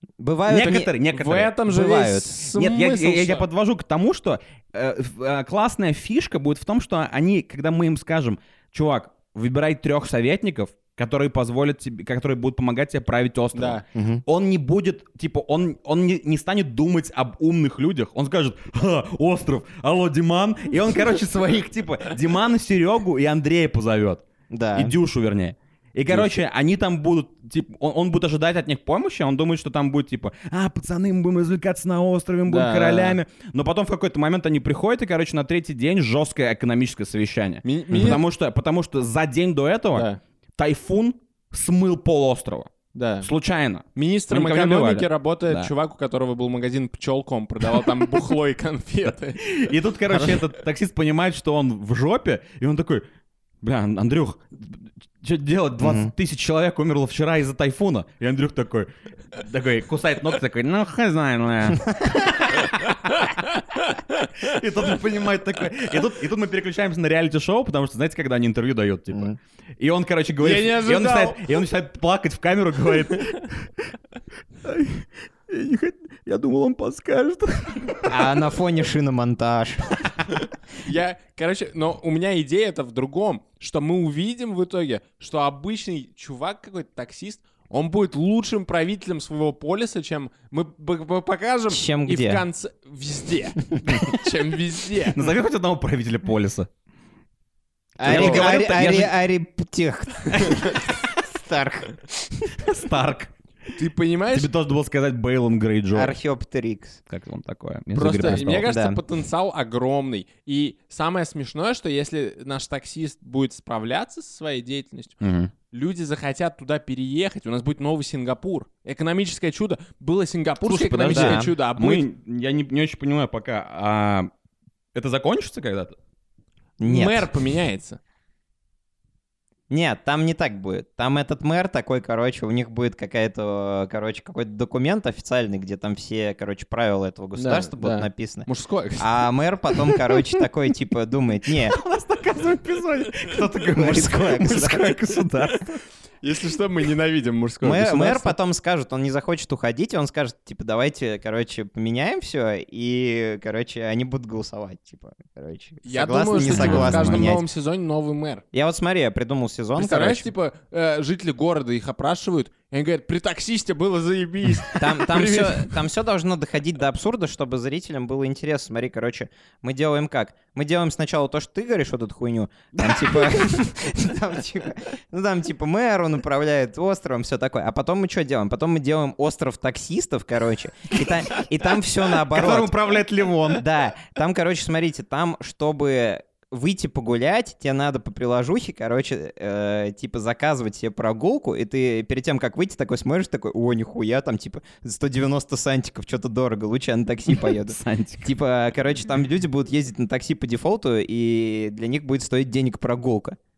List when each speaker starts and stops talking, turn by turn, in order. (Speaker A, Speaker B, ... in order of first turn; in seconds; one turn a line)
Speaker A: 0.2-0.9
Speaker B: 0.5-1.5
Speaker C: 1.1-3.5
Speaker A: 1.7-2.4
Speaker B: 2.5-45.7
Speaker C: 13.5-13.8
Speaker A: 13.9-14.2
Speaker A: 24.5-24.9
Speaker C: 32.5-33.2
Speaker C: 37.6-38.2
Speaker C: 39.9-40.2
Speaker C: 42.9-43.3
Speaker C: 44.0-50.4
Speaker B: 49.4-53.0
Speaker B: 53.6-63.0
Speaker A: 55.8-56.1
Speaker B: 64.4-73.9
Speaker C: 70.4-71.5
Speaker B: 74.6-78.3
Speaker A: 78.0-80.0
Speaker C: 80.8-95.2
Speaker A: 91.7-92.4
Speaker B: 95.1-96.7
Speaker A: 98.0-101.9
Speaker C: 98.0-98.8
Speaker B: 98.1-99.1
Speaker B: 100.3-100.6
Speaker B: 102.5-103.3
Speaker C: 103.7-104.5
Speaker B: 104.3-106.2
Speaker A: 105.9-107.0
Speaker B: 107.1-108.7
Speaker C: 107.9-115.2
Speaker A: 108.6-109.0
Speaker B: 115.2-115.5
Speaker C: 115.7-122.0
Speaker B: 120.6-124.3
Speaker A: 121.1-121.5
Speaker B: 124.9-126.0
Speaker A: 126.8-127.3
Speaker C: 126.8-128.0
Speaker A: 129.7-138.5
Speaker C: 137.3-139.1
Speaker A: 139.0-141.8
Speaker B: 141.7-145.7
Speaker A: 143.7-144.9
Speaker C: 146.2-148.3
Speaker A: 147.6-157.4
Speaker C: 155.8-158.4
Speaker B: 156.4-157.3
Speaker A: 158.5-160.2
Speaker C: 159.8-165.7
Speaker A: 164.8-182.8
Speaker B: 172.8-173.3
Speaker B: 182.2-183.6
Speaker A: 183.5-203.4
Speaker B: 197.3-198.2